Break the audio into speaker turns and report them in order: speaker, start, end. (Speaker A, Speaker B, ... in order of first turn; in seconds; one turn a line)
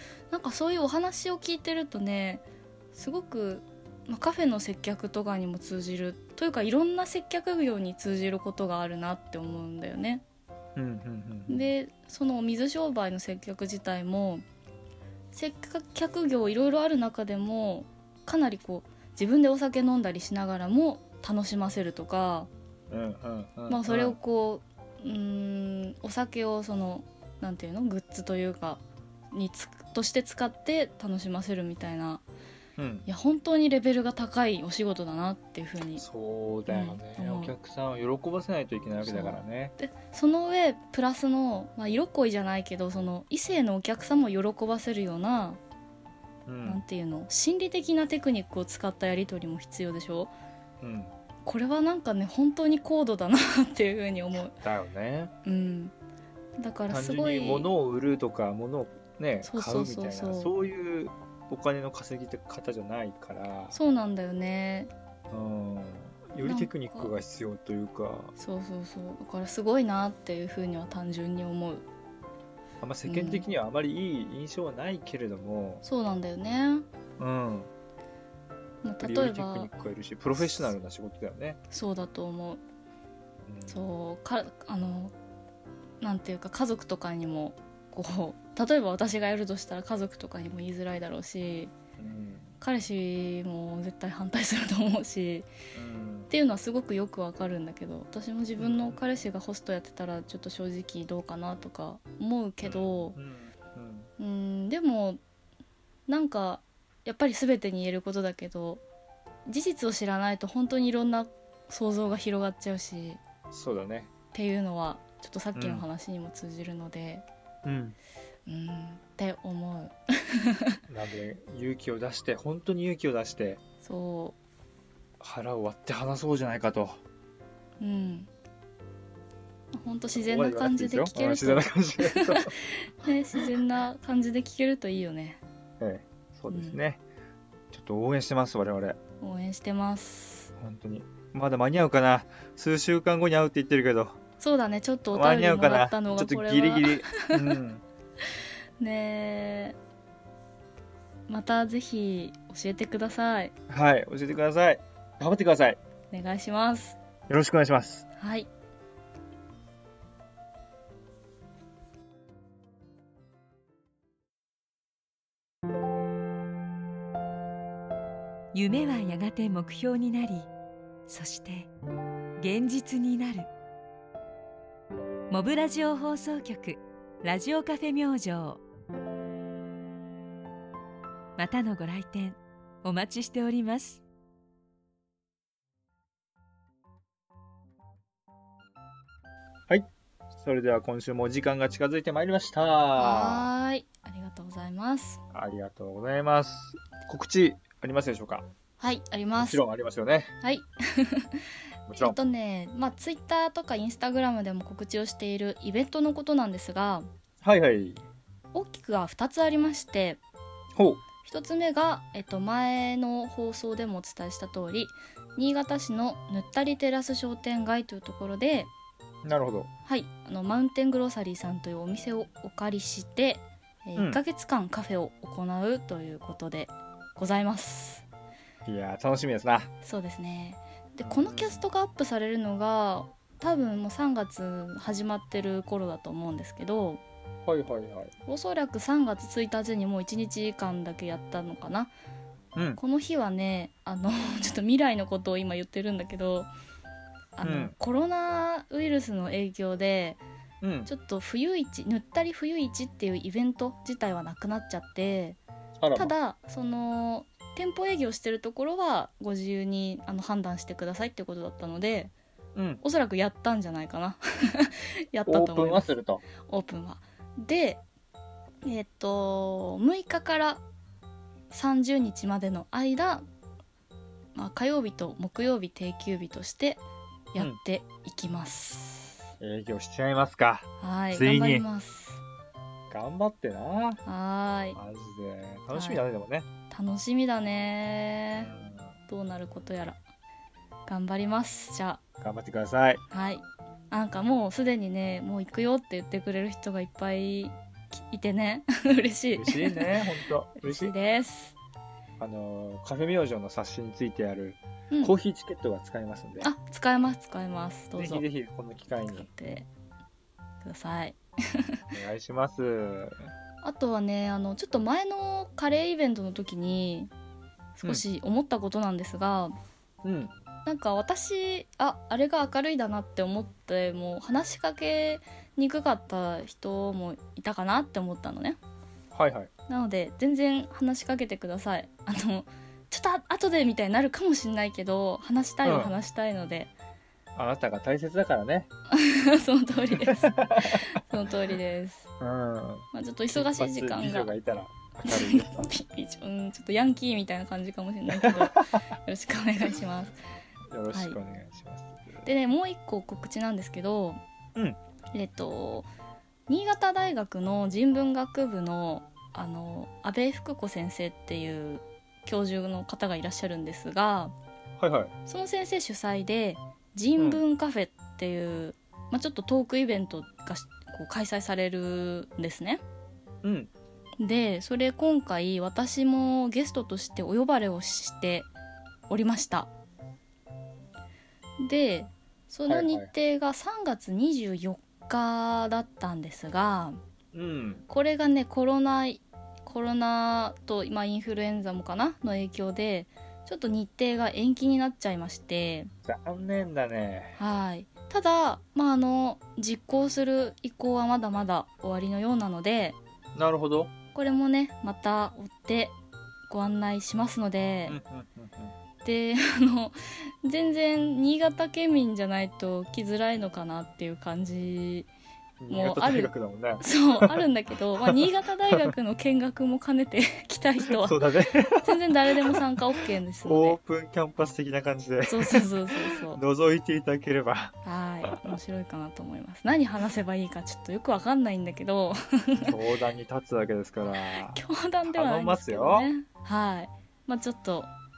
Speaker A: 0.3-10.2
Speaker B: 10.8-11.7
Speaker A: 11.5-14.4
Speaker A: 15.3-22.5
Speaker B: 22.9-24.2
Speaker A: 23.7-28.8
Speaker A: 29.3-32.2
Speaker B: 32.8-33.0
Speaker A: 33.0-36.0
Speaker B: 36.0-39.7
Speaker A: 36.7-37.5
Speaker A: 39.0-45.6
Speaker B: 46.5-46.8
Speaker A: 46.6-50.3
Speaker B: 50.8-51.1
Speaker A: 51.5-54.5
Speaker B: 54.5-55.3
Speaker A: 55.4-55.9
Speaker A: 56.6-57.7
Speaker B: 56.9-63.8
Speaker A: 59.4-60.5
Speaker A: 63.7-64.9
Speaker B: 65.3-68.3
Speaker A: 66.4-67.1
Speaker A: 68.4-71.8
Speaker B: 72.8-75.8
Speaker A: 73.0-73.4
Speaker A: 75.8-76.9
Speaker B: 77.2-77.7
Speaker A: 78.8-79.7
Speaker B: 79.0-81.6
Speaker A: 81.7-82.6
Speaker B: 83.4-83.8
Speaker A: 83.7-85.1
Speaker A: 86.0-91.7
Speaker B: 92.0-92.6
Speaker A: 92.6-95.5
Speaker B: 95.7-96.3
Speaker A: 96.3-103.2
Speaker B: 98.6-99.0
Speaker B: 102.6-104.1
Speaker A: 104.2-105.2
Speaker A: 106.1-108.8
Speaker A: 109.5-113.2
Speaker B: 113.5-114.1
Speaker A: 114.3-117.2
Speaker B: 115.5-115.8
Speaker B: 117.6-118.0
Speaker A: 118.5-120.8
Speaker B: 120.9-123.6
Speaker A: 123.8-124.4
Speaker B: 125.2-127.0
Speaker A: 127.8-128.3
Speaker A: 129.7-135.4
Speaker B: 130.1-132.5
Speaker B: 135.8-137.0
Speaker A: 136.5-136.8
Speaker B: 137.7-139.0
Speaker A: 139.2-140.5
Speaker B: 140.6-144.2
Speaker A: 144.4-147.6
Speaker B: 145.1-147.8
Speaker A: 148.8-149.8
Speaker A: 151.3-153.5
Speaker B: 153.7-155.8
Speaker A: 156.1-157.0
Speaker B: 157.3-158.0
Speaker A: 158.2-158.5
Speaker C: 168.5-170.5
Speaker C: 171.1-171.7
Speaker C: 172.4-173.5
Speaker C: 175.3-178.6
Speaker C: 181.4-184.0
Speaker B: 189.7-193.5
Speaker A: 192.9-195.2
Speaker B: 195.3-198.4
Speaker A: 198.8-199.6
Speaker B: 199.4-200.3
Speaker A: 200.4-201.3
Speaker B: 201.9-202.2
Speaker A: 201.9-207.1
Speaker B: 207.4-208.0
Speaker A: 208.5-210.2
Speaker B: 210.8-211.0
Speaker A: 211.2-218.7
Speaker B: 219.2-219.7
Speaker A: 219.9-228.1
Speaker B: 228.6-229.7
Speaker A: 229.8-237.0
Speaker B: 231.0-231.6
Speaker B: 237.4-238.1
Speaker A: 238.3-241.9
Speaker B: 242.5-242.8
Speaker A: 242.8-246.5
Speaker A: 247.4-250.2
Speaker B: 247.4-247.7
Speaker B: 250.6-250.9
Speaker A: 250.9-255.4
Speaker B: 255.8-256.1
Speaker A: 255.9-262.1
Speaker B: 262.5-262.8
Speaker A: 262.8-265.9
Speaker B: 265.3-266.2
Speaker A: 266.4-267.8
Speaker A: 268.6-270.6
Speaker A: 271.5-273.2
Speaker A: 274.4-276.8
Speaker A: 277.3-279.3
Speaker B: 279.4-281.6
Speaker A: 280.8-282.2
Speaker B: 282.9-284.0
Speaker A: 284.0-284.8
Speaker B: 284.7-286.5
Speaker A: 285.7-286.0
Speaker A: 286.7-288.5
Speaker B: 288.4-288.9
Speaker A: 289.1-290.0
Speaker A: 290.9-292.0
Speaker B: 292.2-293.0
Speaker A: 293.1-300.0
Speaker B: 299.3-300.9
Speaker A: 300.6-301.5
Speaker B: 302.2-306.5
Speaker A: 306.4-308.2
Speaker B: 307.9-309.3
Speaker A: 309.1-309.7
Speaker A: 310.6-311.8
Speaker B: 311.9-313.3
Speaker A: 313.6-317.1
Speaker A: 317.8-319.5
Speaker B: 320.0-320.3
Speaker A: 320.6-328.6
Speaker B: 329.1-329.5
Speaker A: 329.7-336.7
Speaker B: 335.6-335.9
Speaker B: 337.4-338.7
Speaker A: 338.9-342.1
Speaker B: 339.9-340.9
Speaker B: 342.2-345.7
Speaker A: 342.9-344.3
Speaker A: 345.1-350.1
Speaker B: 348.1-348.7
Speaker B: 350.7-352.3
Speaker A: 352.2-354.2
Speaker A: 355.1-355.9
Speaker A: 356.5-364.3
Speaker B: 364.8-365.1
Speaker A: 365.3-372.8
Speaker B: 367.2-367.4
Speaker B: 373.4-373.7
Speaker A: 374.2-378.5
Speaker A: 379.1-379.7
Speaker A: 381.6-387.0
Speaker B: 382.7-383.1
Speaker B: 387.3-387.8
Speaker A: 387.9-395.9
Speaker B: 396.0-397.4
Speaker A: 397.4-403.0
Speaker B: 403.4-403.9
Speaker A: 404.1-405.9
Speaker A: 406.5-408.0
Speaker B: 407.9-408.7
Speaker A: 409.0-415.1
Speaker B: 415.6-417.4
Speaker A: 415.7-421.2
Speaker B: 418.0-418.9
Speaker B: 420.9-422.6
Speaker A: 421.8-423.8
Speaker B: 423.4-428.6
Speaker A: 425.2-426.4
Speaker A: 427.9-432.8
Speaker B: 432.6-436.1
Speaker A: 434.4-437.9